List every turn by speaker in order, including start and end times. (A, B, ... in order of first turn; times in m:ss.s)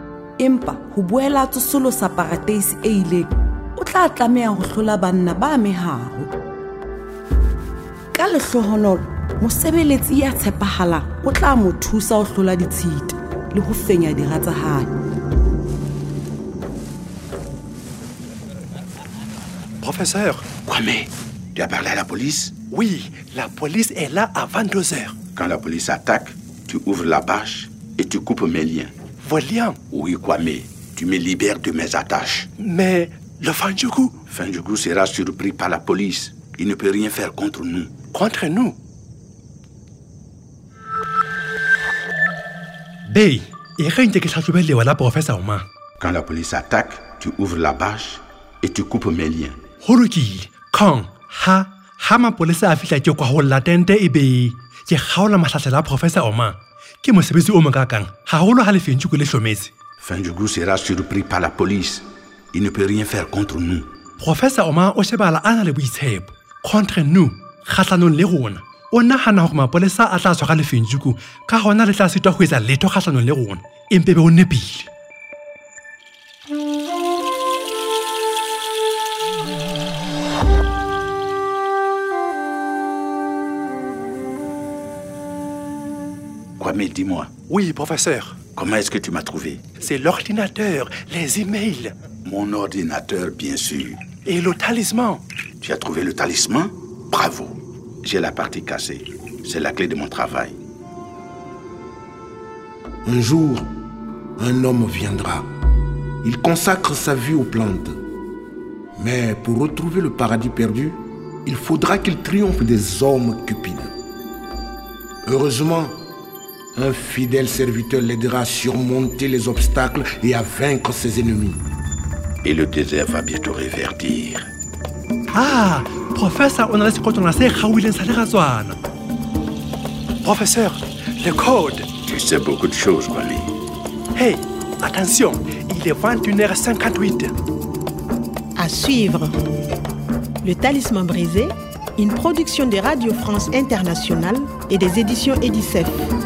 0:00.4-0:06.3 A
0:08.1-0:14.9 A
0:19.8-0:20.4 B
0:20.6-0:22.5 C
0:22.7-0:25.1 B
0:25.4-0:28.9 C
0:29.2-0:29.8 B
0:29.9-0:32.5 C
0:32.6-0:34.1 B
0:34.3-0:37.9 C
0:38.1-0:38.8 B
0:43.0-0:45.7 B
0:46.0-0:49.6 C
0:49.8-0:59.7 B
1:00.0-1:03.9 C
1:04.2-1:14.9 B
1:26.6-1:27.3 C
1:27.5-1:28.4 B
1:28.6-1:29.6 C
1:29.8-1:31.9 B
1:32.2-1:34.0 C
1:34.2-1:35.2 B
1:35.6-1:40.6 C
1:43.0-1:43.7 D
1:44.4-1:45.4 D
1:46.2-1:48.0 D
1:49.0-1:53.9 D
1:55.2-1:56.0 D
1:56.7-2:01.6 D
2:02.4-2:04.5 C
2:05.3-2:08.8 B
2:10.2-2:11.9 B
2:12.0-2:13.5 C
2:14.1-2:17.3 B
2:18.6-2:19.3 E
2:20.4-2:25.9 E